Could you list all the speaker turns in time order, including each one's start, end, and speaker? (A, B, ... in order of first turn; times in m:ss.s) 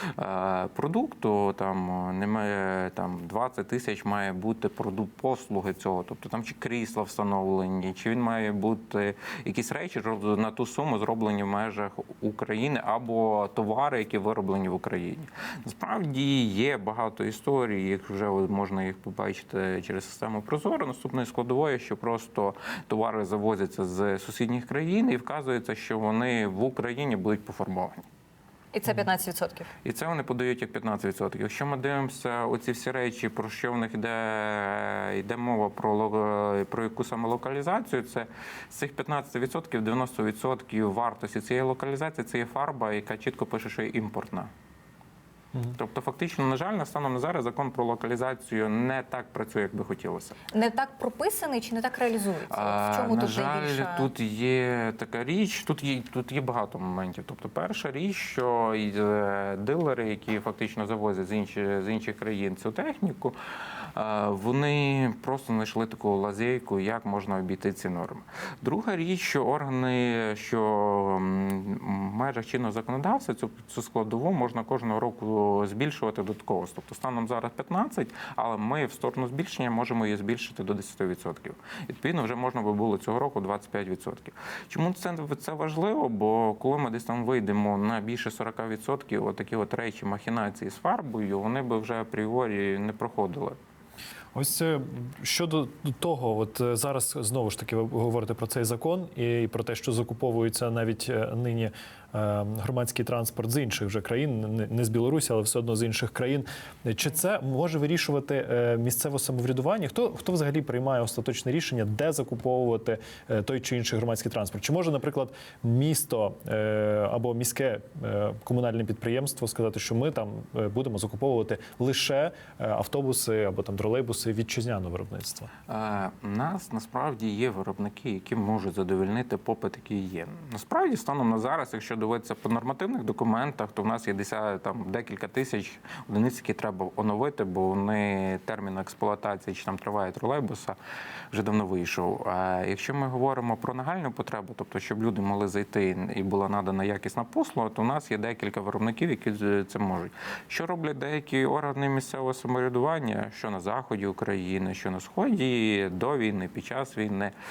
0:00.2-0:28.0 A
0:28.7-0:29.7 B
0:29.8-0:44.5 A
0:45.6-0:50.4 A
0:50.5-0:54.1 B
0:52.5-1:03.4 A
1:03.9-1:33.6 A
1:34.3-2:05.5 C
2:05.7-2:20.8 A
2:21.3-2:37.3 A